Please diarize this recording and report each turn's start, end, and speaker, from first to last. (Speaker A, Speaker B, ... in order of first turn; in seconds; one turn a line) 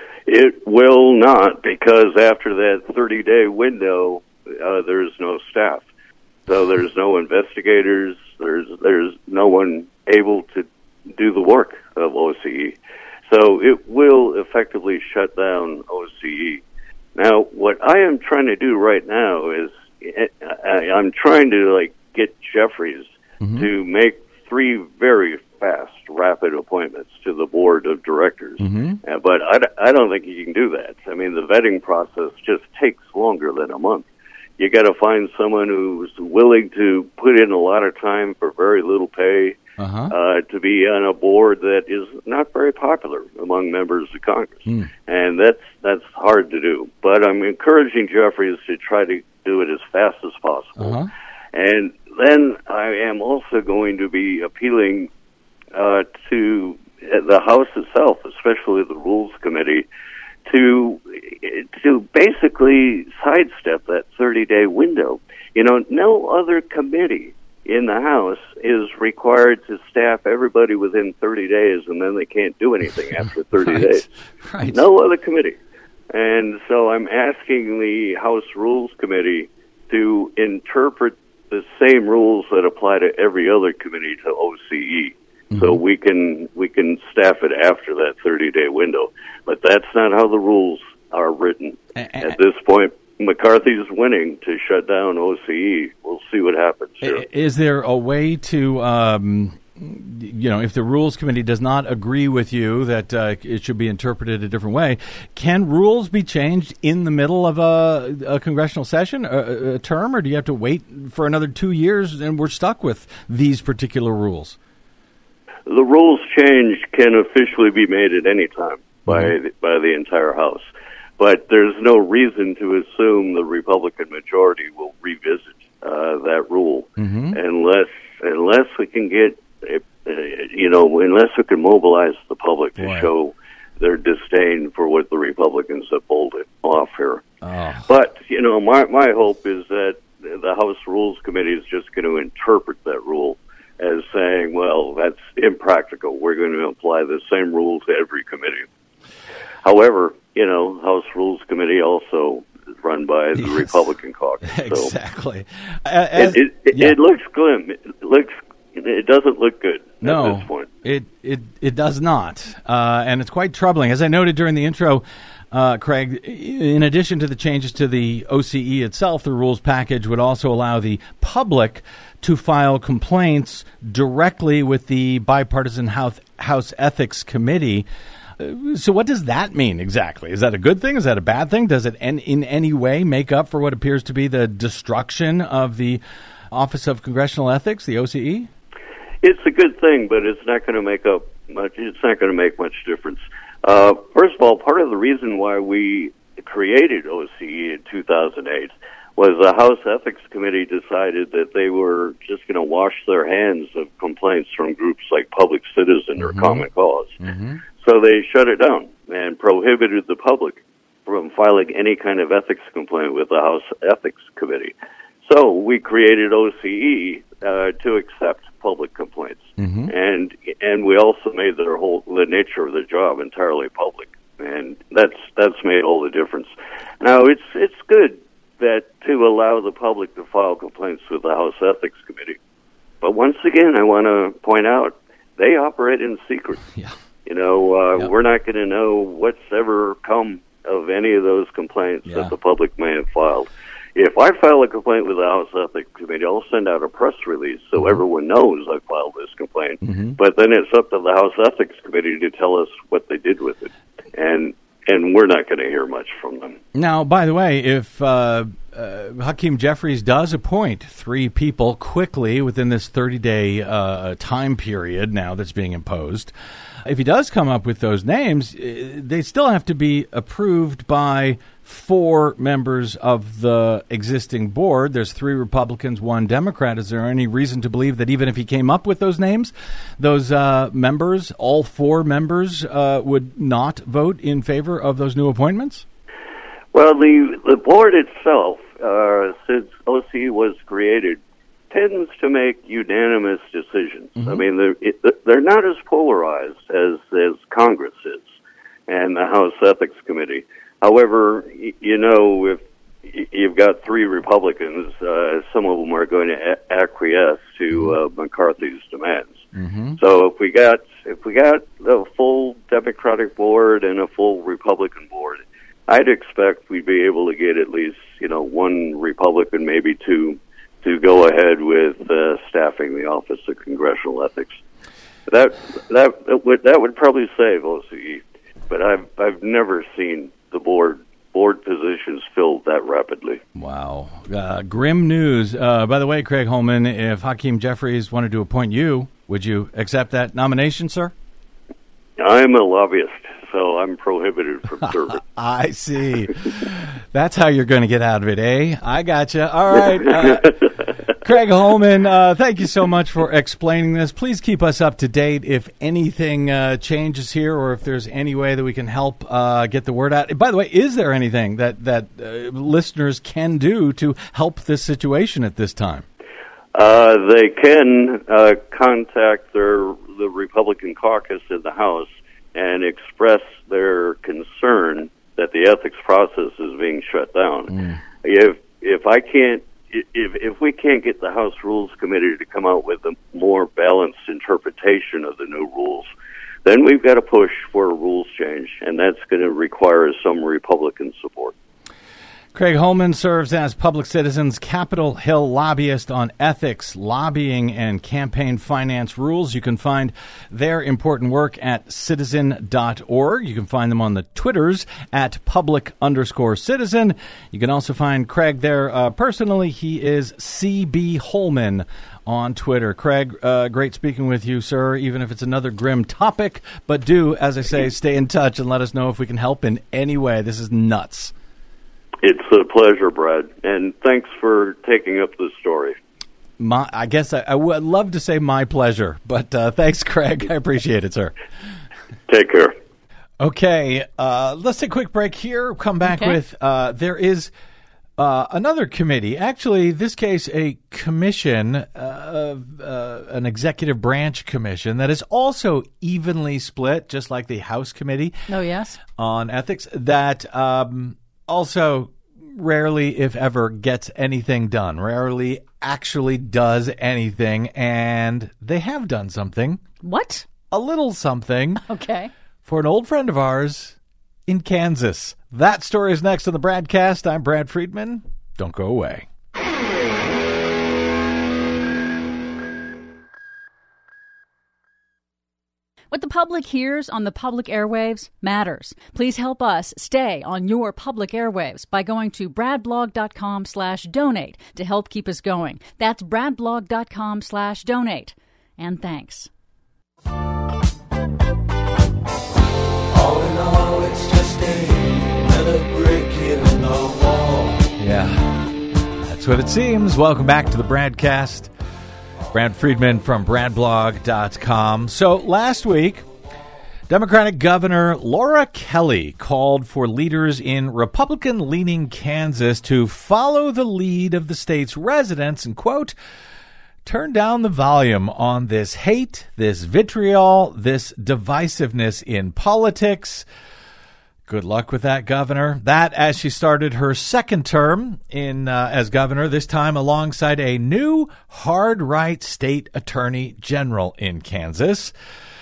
Speaker A: 0.3-5.8
Speaker A: 6.5-16.6
Speaker A: 17.1-34.0
Speaker B: 23.4-23.7
Speaker B: 28.6-29.0
Speaker A: 34.6-39.6
Speaker B: 39.8-40.1
Speaker A: 40.1-51.0
Speaker B: 50.8-51.1
Speaker A: 51.5-55.1
Speaker A: 55.7-59.9
Speaker A: 60.5-74.1
Speaker B: 73.6-74.9
Speaker A: 74.7-75.6
Speaker A: 76.1-97.2
Speaker B: 85.5-85.8
Speaker B: 92.0-92.4
Speaker B: 97.0-114.6
Speaker A: 115.7-137.2
Speaker B: 119.0-119.3
Speaker B: 127.0-127.4
Speaker B: 132.8-133.1
Speaker B: 137.4-137.9
Speaker A: 137.8-148.7
Speaker A: 149.6-154.9
Speaker B: 153.3-153.8
Speaker B: 154.4-157.0
Speaker A: 156.1-160.7
Speaker B: 160.0-177.9
Speaker B: 178.4-188.5
Speaker A: 189.2-207.2
Speaker B: 206.2-206.7
Speaker B: 207.2-207.6
Speaker A: 207.8-232.4
Speaker B: 219.6-219.9
Speaker A: 233.0-236.6
Speaker A: 237.2-256.6
Speaker B: 242.1-242.3
Speaker B: 247.8-248.0
Speaker B: 249.8-250.2
Speaker B: 256.7-266.3
Speaker B: 266.8-285.8
Speaker A: 286.7-291.2
Speaker A: 291.7-298.2
Speaker B: 294.2-294.4
Speaker A: 298.9-309.4
Speaker B: 307.7-308.0
Speaker B: 309.5-310.0
Speaker A: 310.0-324.6
Speaker A: 325.3-333.4
Speaker B: 333.5-341.1
Speaker A: 342.2-345.2
Speaker B: 344.8-350.6
Speaker B: 351.2-366.1
Speaker A: 366.7-386.1
Speaker B: 377.7-378.0
Speaker A: 386.6-391.5
Speaker B: 392.5-421.3
Speaker A: 422.2-426.0
Speaker B: 426.6-431.3
Speaker A: 432.3-432.7
Speaker B: 433.4-437.5
Speaker C: 436.0-436.4
Speaker B: 438.2-448.4
Speaker C: 448.5-449.0
Speaker B: 449.1-459.8
Speaker C: 460.0-460.4
Speaker B: 460.7-461.8
Speaker C: 461.9-462.3
Speaker B: 462.6-469.3
Speaker C: 476.1-489.5
Speaker D: 493.1-497.8
Speaker B: 497.9-498.7
Speaker B: 499.2-501.7
Speaker B: 502.5-506.2
Speaker B: 507.1-516.1
Speaker B: 517.0-523.5
Speaker B: 524.4-535.1